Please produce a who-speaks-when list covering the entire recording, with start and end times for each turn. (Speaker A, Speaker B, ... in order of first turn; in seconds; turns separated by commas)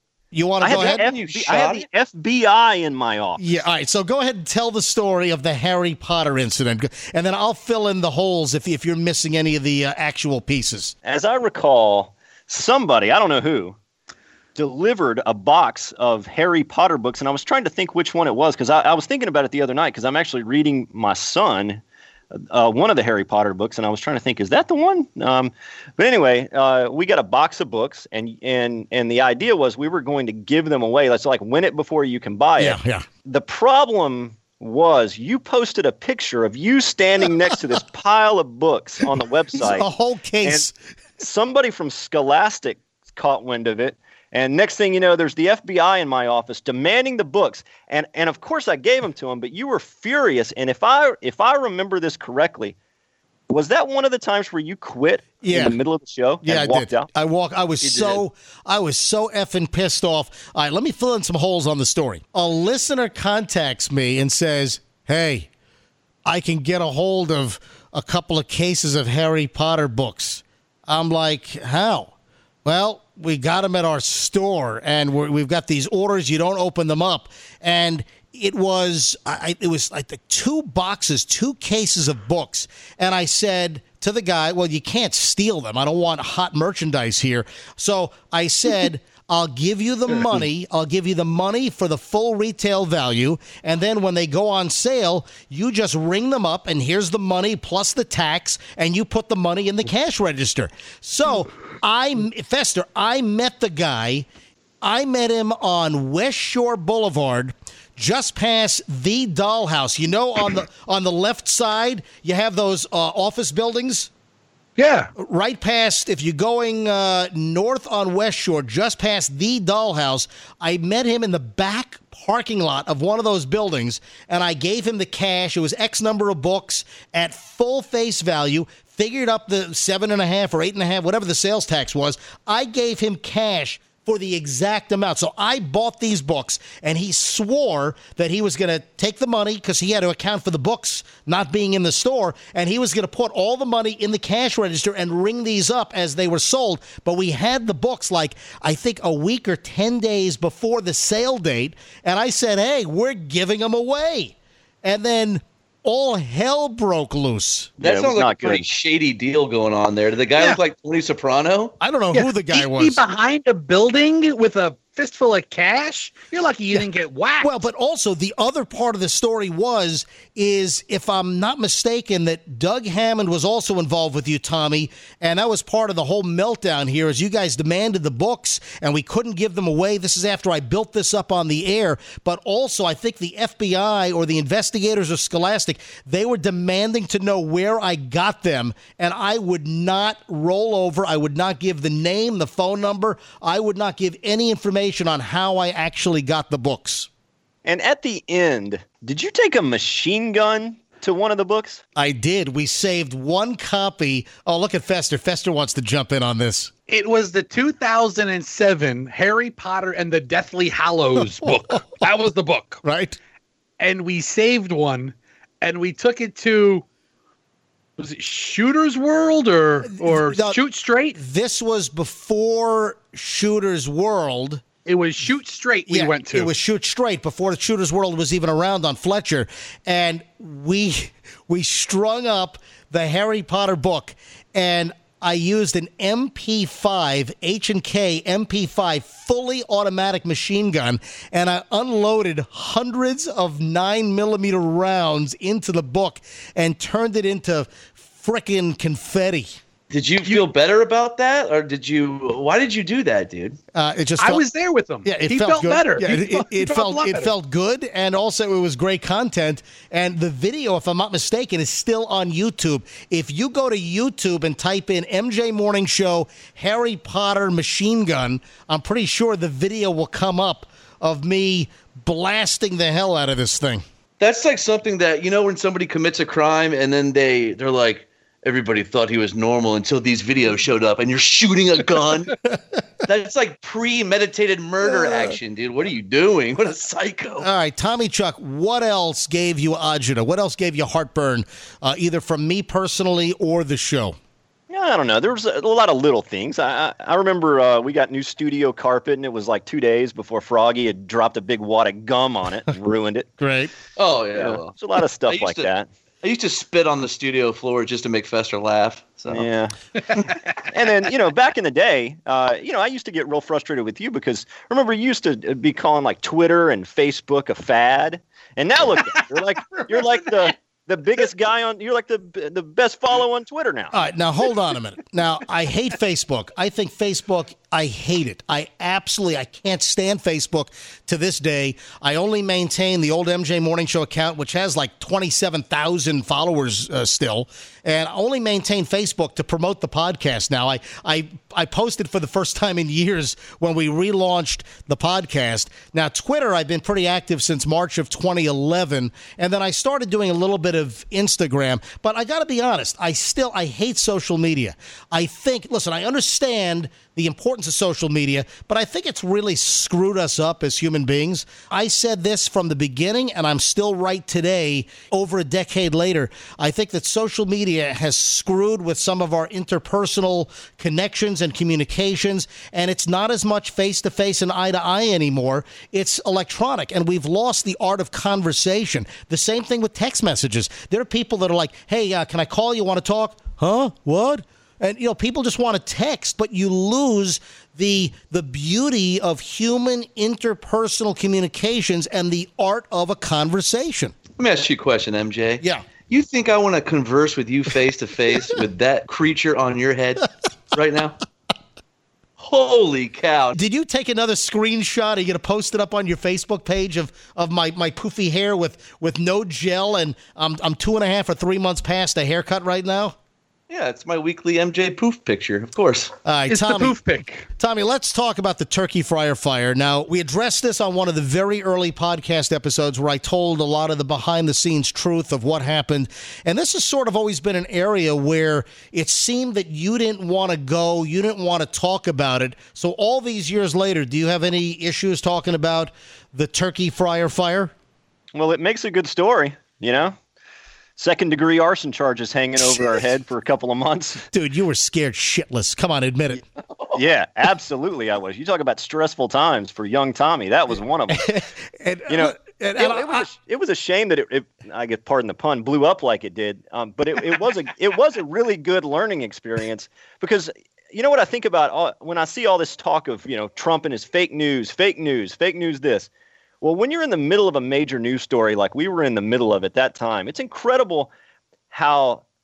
Speaker A: 0.3-1.0, Speaker B: 0.6-3.5, Speaker C: 0.6-1.9, Speaker A: 3.4-10.9, Speaker B: 11.0-13.8, Speaker B: 14.6-21.8, Speaker B: 22.3-39.9, Speaker A: 32.6-33.1, Speaker A: 39.6-40.8, Speaker B: 41.2-52.8, Speaker B: 53.5-57.1, Speaker A: 55.4-55.8, Speaker A: 56.4-65.5, Speaker C: 57.8-58.2, Speaker A: 66.2-72.1, Speaker A: 72.6-104.3, Speaker A: 104.8-114.1, Speaker D: 114.8-115.1, Speaker A: 115.2-157.7, Speaker B: 157.8-158.7, Speaker C: 157.8-161.7, Speaker A: 161.8-163.0, Speaker D: 162.1-167.6, Speaker A: 167.4-197.1, Speaker B: 197.6-201.8, Speaker A: 202.0-206.7, Speaker D: 206.9-212.8, Speaker A: 211.2-211.8, Speaker A: 212.8-213.2, Speaker D: 213.8-216.8, Speaker D: 218.0-221.2, Speaker A: 219.9-220.6, Speaker A: 221.2-224.6, Speaker D: 224.9-226.5, Speaker A: 225.9-249.6, Speaker C: 249.9-253.6, Speaker A: 253.7-254.4, Speaker D: 254.2-257.3, Speaker A: 255.0-273.8, Speaker C: 274.2-282.4, Speaker A: 282.5-282.8, Speaker C: 283.1-287.5, Speaker A: 287.4-294.1, Speaker B: 294.7-303.3, Speaker A: 303.4-303.7, Speaker C: 304.0-304.8, Speaker B: 304.4-305.9, Speaker C: 305.3-305.7, Speaker C: 306.2-309.5, Speaker B: 309.3-309.8, Speaker D: 310.0-310.5, Speaker B: 310.7-323.9, Speaker D: 319.1-320.5, Speaker A: 323.9-394.1, Speaker C: 394.4-401.2, Speaker A: 395.6-395.9, Speaker C: 402.4-403.6, Speaker A: 403.5-413.1, Speaker C: 413.7-416.1, Speaker A: 416.2-416.9, Speaker D: 416.5-417.5, Speaker A: 417.6-437.7, Speaker B: 438.3-440.2, Speaker B: 441.0-444.3, Speaker A: 442.6-443.0, Speaker A: 444.3-446.4, Speaker B: 446.9-451.3, Speaker A: 451.1-453.3, Speaker B: 452.1-466.1, Speaker B: 466.6-471.1, Speaker B: 471.7-472.2